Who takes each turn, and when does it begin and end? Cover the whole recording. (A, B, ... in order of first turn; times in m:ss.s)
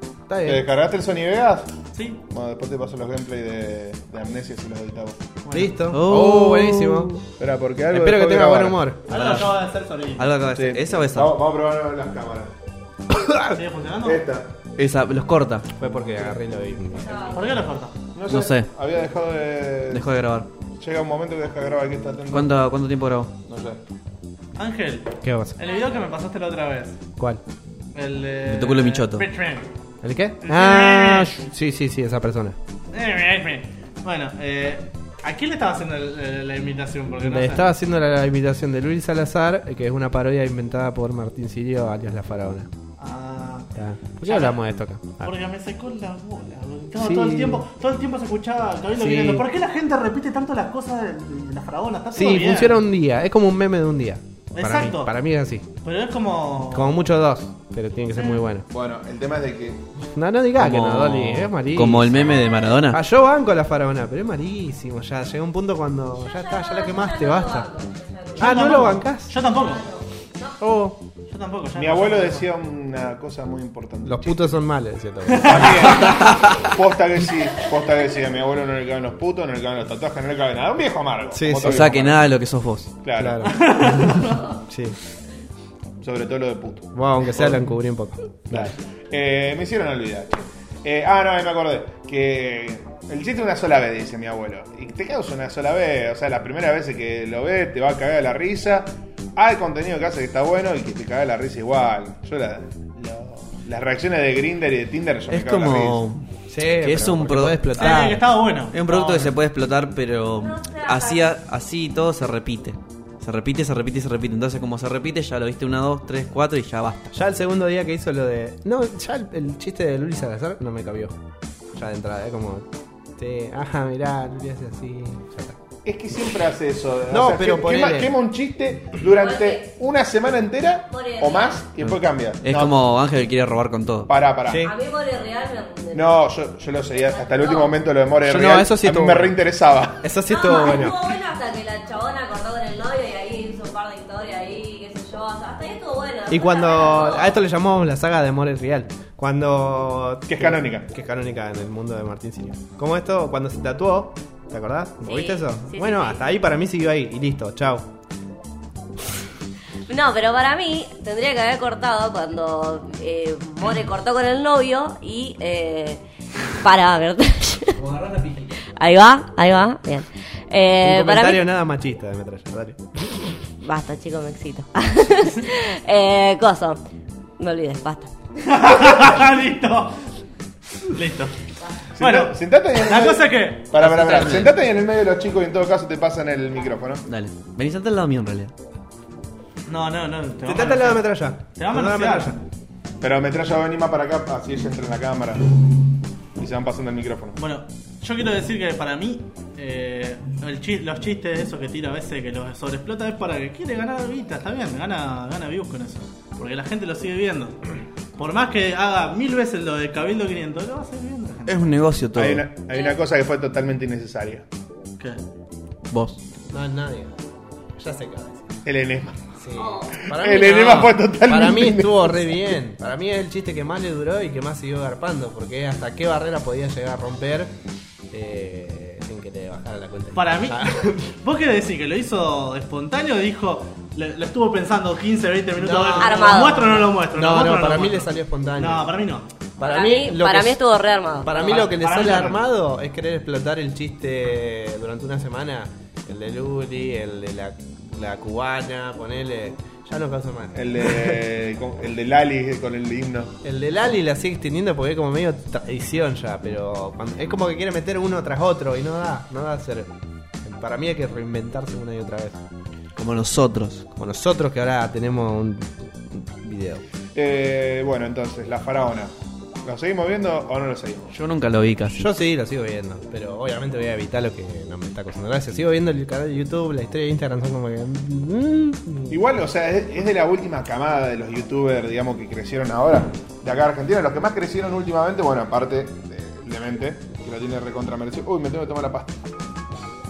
0:00.3-0:00.6 A
0:00.4-0:01.7 B
0:01.9-0:02.2 C
0:02.3-0:05.2 B
0:05.4-0:05.8 C
0:05.5-0:07.2 A
0:05.9-0:07.2 D
0:07.4-0:08.8 B
0:07.9-0:09.1 A
0:09.1-0:10.4 C
0:09.1-0:09.5 D
0:10.2-0:11.3 D
0:10.5-0:12.5 B
0:13.1-0:13.6 A
0:13.5-0:14.2 C
0:14.0-0:14.5 B
0:14.8-0:15.7 D
0:15.8-0:17.4 A
0:16.9-0:17.6 E
0:17.3-0:18.0 C
0:18.1-0:20.1 B
0:18.3-0:18.7 D
0:19.9-0:20.5 D
0:20.8-0:22.6 B
0:22.3-0:23.3 D
0:23.4-0:23.8 B
0:24.6-0:27.0 C
0:25.2-0:25.6 A
0:25.6-0:26.0 E
0:27.9-0:29.7 C
0:28.4-0:29.3 D
0:30.0-0:32.6 A
0:30.4-0:31.4 C
0:32.9-0:37.7 C
0:37.2-0:42.7 A
0:43.0-0:43.7 C
0:43.7-0:45.3 A
0:44.2-0:44.6 C
0:45.2-0:52.8 C
0:47.0-0:47.6 A
0:49.0-0:49.4 A
0:52.1-0:55.6 A
0:54.5-0:55.1 C
0:55.8-0:57.1 C
0:56.7-0:58.6 A
0:58.7-0:59.9 B
1:00.1-1:07.7 A
1:00.6-1:03.0 D
1:06.3-1:08.7 E
1:08.4-1:09.3 A
1:08.4-1:09.9 C
1:09.5-1:10.6 E
1:10.6-1:11.0 A
1:11.3-1:12.4 C
1:11.8-1:14.5 B
1:14.0-1:16.3 A
1:15.3-1:16.2 C
1:15.4-1:22.2 B
1:16.2-1:16.7 D
1:21.3-1:21.9 A
1:21.6-1:22.9 D
1:23.0-1:23.6 B
1:23.2-1:25.0 A
1:23.4-1:24.4 C
1:26.0-1:27.6 B
1:26.9-1:28.7 A
1:28.5-1:46.0 B
1:45.3-1:48.2 D
1:46.5-1:48.2 A
1:47.8-1:49.3 C
1:48.7-1:57.1 D
1:50.3-1:51.3 E
1:57.1-2:01.2 A
2:01.7-2:02.6 A
2:03.2-2:05.6 A
2:05.8-2:12.7 B
2:07.1-2:08.1 A
2:09.1-2:09.7 E
2:10.9-2:11.6 E
2:12.4-2:14.1 D
2:14.1-2:14.7 B
2:14.5-2:14.7 A
2:14.6-2:16.1 E
2:15.9-2:20.1 B
2:17.2-2:17.7 E
2:18.2-2:19.4 A
2:20.0-2:21.0 A
2:20.3-2:27.3 E
2:26.3-2:37.9 A
2:30.3-2:30.9 B
2:35.0-2:36.2 E
2:39.9-2:46.0 E
2:46.6-2:47.8 E
2:47.8-2:48.6 D
2:48.7-2:51.5 E
2:50.8-2:53.3 A
2:53.6-2:56.8 E
2:57.4-2:58.1 E
2:58.4-3:00.0 C
3:00.8-3:01.4 C
3:02.0-3:07.0 B
3:02.0-3:03.7 C
3:03.7-3:04.5 D
3:07.0-3:08.5 D
3:09.7-3:12.4 C
3:10.4-3:12.4 A
3:13.0-3:15.7 B
3:16.4-3:17.4 B
3:17.4-3:31.6 C
3:31.5-3:32.4 D
3:32.1-3:34.4 B
3:35.9-3:36.2 D
3:36.5-3:38.5 A
3:38.6-3:39.3 B
3:39.4-3:47.5 A
3:39.6-3:40.0 E
3:40.0-3:42.4 B
3:48.1-3:51.2 A
3:50.1-3:59.3 C
3:55.6-3:58.9 A
3:56.0-3:56.8 E
3:59.6-4:00.6 A
3:59.6-4:01.4 E
4:01.2-4:11.2 A
4:01.3-4:02.4 C
4:10.5-4:13.3 B
4:13.4-4:19.9 A
4:20.4-4:22.4 A
4:23.0-4:23.9 D
4:24.0-4:26.8 A
4:27.1-4:29.1 B
4:29.6-4:31.1 B
4:31.1-4:32.0 D
4:31.9-4:39.2 A
4:39.1-4:49.2 B